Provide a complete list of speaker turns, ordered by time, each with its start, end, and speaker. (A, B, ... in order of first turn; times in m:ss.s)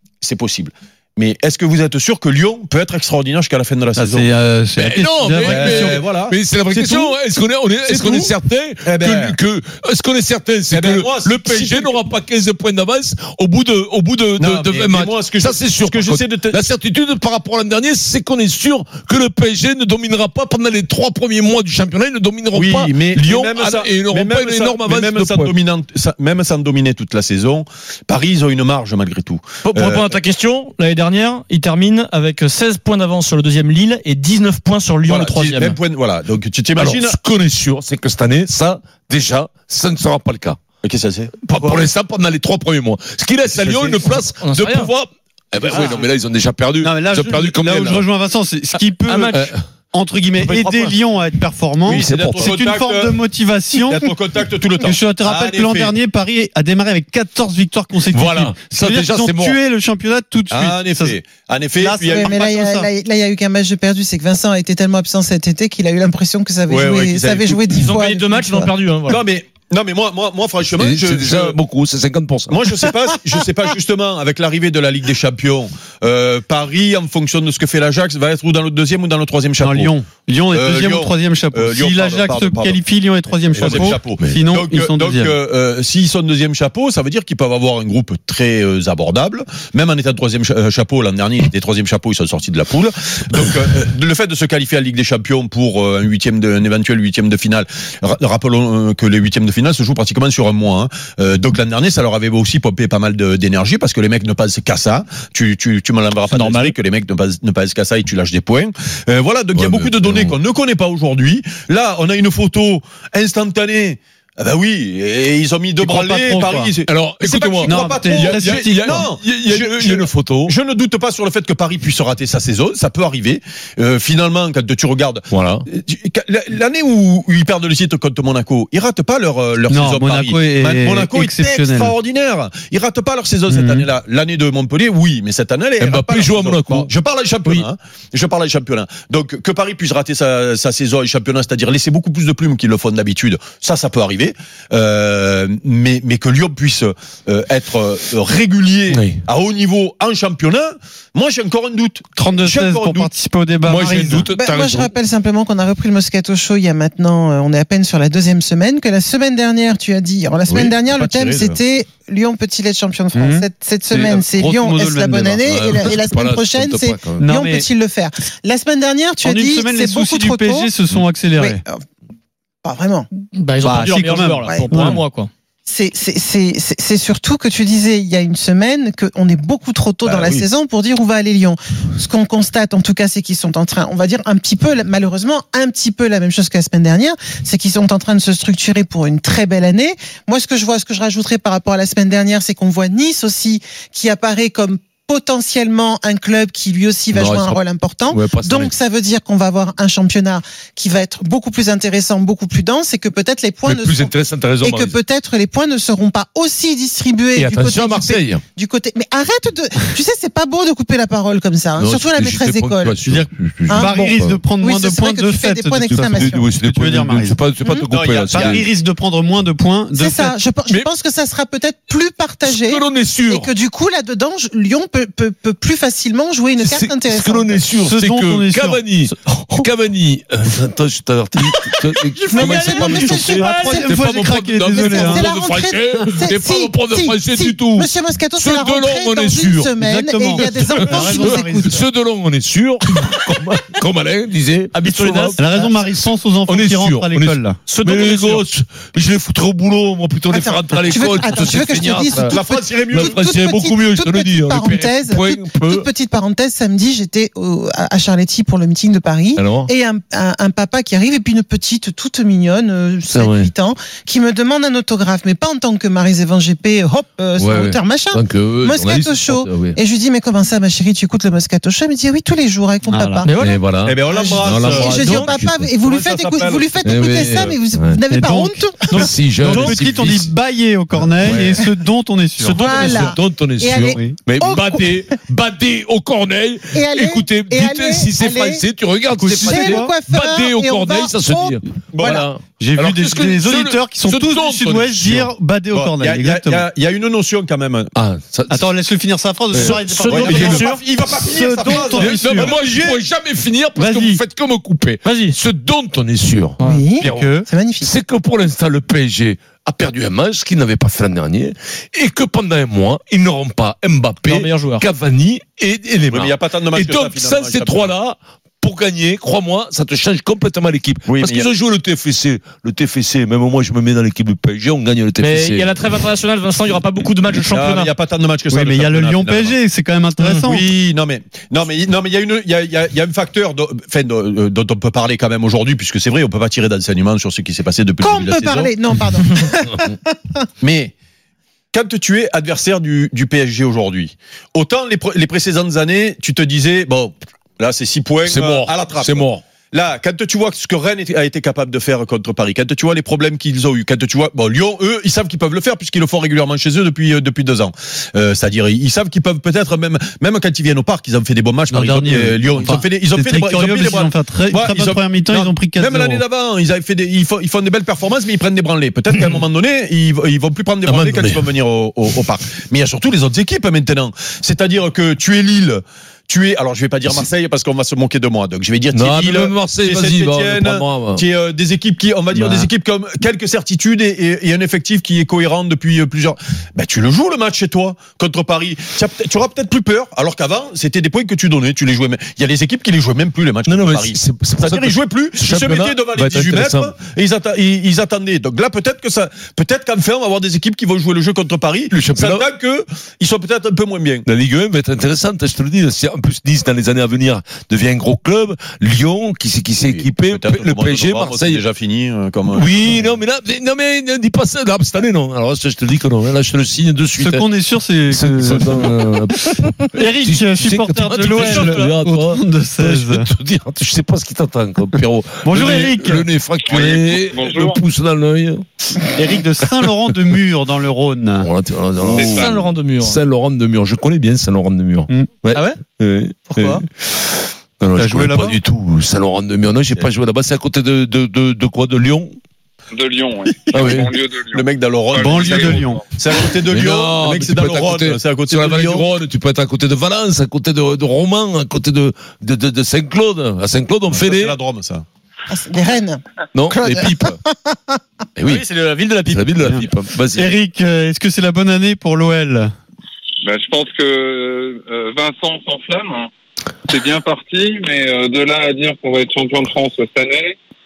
0:00.2-0:04.3 A
0:04.0-0:06.0 B
0:04.8-0:25.5 C
0:05.4-0:07.1 A
0:07.8-0:08.3 A
0:08.8-0:09.4 A
0:10.7-0:12.0 A
0:14.4-0:16.6 A
0:22.5-0:30.1 A
0:29.6-0:35.8 D
0:35.1-0:37.2 A
0:36.8-0:40.6 C
0:40.8-0:41.3 A
0:41.4-0:48.0 C
0:41.6-0:41.9 D
0:43.6-0:44.0 A
0:44.4-0:44.9 D
0:45.7-0:46.0 D
0:46.8-0:54.1 B
0:49.1-0:49.4 D
0:49.3-0:49.6 C
0:50.4-0:50.9 C
0:51.8-0:53.2 A
0:51.8-0:52.5 C
0:53.8-0:55.9 A
0:54.8-1:01.2 B
0:58.1-0:59.6 C
1:00.5-1:02.4 A
1:01.8-1:02.9 B
1:02.1-1:08.7 E
1:06.7-1:07.6 A
1:07.7-1:09.2 D
1:09.1-1:11.6 A
1:10.7-1:12.6 C
1:12.5-1:19.9 A
1:19.6-1:25.4 B
1:20.5-1:22.8 A
1:23.5-2:33.1 A
1:23.6-1:24.3 C
1:46.3-1:46.8 D
1:49.5-1:50.4 C
1:55.8-1:56.7 B
1:56.8-2:00.5 C
1:57.6-1:59.1 B
2:05.3-2:05.6 C
2:09.7-2:11.9 B
2:13.5-2:13.8 B
2:15.8-2:16.9 C
2:28.9-2:29.2 C
2:32.2-2:34.3 B
2:33.6-2:34.9 C
2:34.3-2:50.7 E
2:40.6-2:41.6 A
2:43.1-2:45.6 B
2:45.4-2:47.2 C
2:47.2-2:47.7 B
2:49.2-2:51.6 B
2:51.4-2:51.8 E
2:52.6-2:53.1 E
2:53.3-2:55.3 D
2:53.6-2:55.0 B
2:54.4-2:54.8 E
2:55.6-3:33.0 E
3:00.0-3:00.4 A
3:17.1-3:18.7 C
3:23.6-3:25.0 C
3:27.3-3:28.4 C
3:31.8-3:34.4 C
3:33.0-3:37.4 B
3:33.7-3:36.4 E
3:35.9-3:38.7 C
3:37.9-3:38.6 A
3:38.3-3:40.4 B
3:39.9-3:47.6 E
3:42.4-3:43.5 C
3:46.6-3:59.8 C
3:47.7-3:48.8 B
3:49.0-3:49.7 D
3:52.1-3:53.9 D
3:52.3-3:53.9 E
3:53.3-3:55.3 B
3:54.7-4:01.8 E
3:59.8-4:01.8 B
4:00.4-4:15.9 C
4:04.7-4:05.7 D
4:05.4-4:07.6 B
4:07.7-4:08.4 D
4:10.3-4:33.3 E
4:12.1-4:13.1 A
4:19.4-4:19.7 C
4:23.1-4:23.5 C
4:27.4-4:29.8 C
4:32.9-4:33.3 B
4:33.2-4:33.6 D
4:33.4-4:35.7 C
4:33.8-4:36.7 A
4:34.1-4:39.1 E
4:36.8-4:38.0 C
4:38.0-4:43.1 B
4:38.9-4:40.3 C
4:39.4-4:39.8 D
4:41.1-4:41.6 C
4:41.4-4:41.7 E
4:42.4-4:42.9 D
4:42.5-4:45.1 E
4:42.7-4:55.3 C
4:43.9-4:44.2 B
4:46.7-4:48.6 E
4:49.2-4:49.9 B
4:49.4-4:52.1 E
4:51.9-4:52.2 A
4:52.6-4:56.6 B
4:55.7-4:57.9 A
4:57.9-4:58.7 C
4:58.5-5:02.6 B
4:59.5-5:00.7 C
4:59.6-5:03.0 A
5:00.3-5:00.8 D
5:01.7-5:25.7 C
5:03.8-5:04.2 B
5:05.0-5:05.4 D
5:06.6-5:06.8 D
5:06.6-5:07.9 E
5:07.0-5:07.5 B
5:14.2-5:14.8 D
5:16.1-5:17.9 A
5:21.0-5:21.5 A
5:25.2-5:27.9 D
5:27.4-5:29.5 A
5:28.5-5:30.7 B
5:30.2-5:38.7 A
5:38.0-5:40.4 E
5:40.6-5:40.9 A
5:41.7-6:44.2 A
5:48.2-5:49.4 C
6:01.7-6:06.2 B
6:10.8-6:11.5 C
6:18.9-6:21.2 C
6:33.6-6:36.9 C
6:41.9-6:42.4 C
6:44.2-6:51.6 C
6:49.8-6:53.0 A
6:52.5-6:57.4 C
6:57.2-6:59.3 B
6:58.1-7:09.1 C
6:59.9-7:03.3 B
7:01.3-7:01.9 D
7:05.4-7:06.3 B
7:06.7-7:07.8 F
7:09.1-7:11.5 B
7:11.4-7:22.4 C
7:12.1-7:12.5 F
7:12.3-7:13.2 D
7:15.5-7:15.8 D
7:16.5-7:16.8 D
7:18.0-7:18.6 B
7:22.9-7:26.0 F
7:23.7-7:24.1 C
7:24.5-7:29.1 A
7:25.2-7:26.0 B
7:26.5-7:34.6 C
7:34.1-7:35.0 A
7:35.5-7:36.2 E
7:36.5-7:37.4 C
7:36.7-7:38.0 E
7:38.4-7:38.6 C
7:38.6-7:39.6 D
7:39.3-7:40.5 C
7:39.6-7:42.7 B
7:43.4-7:46.3 F
7:46.9-7:50.5 F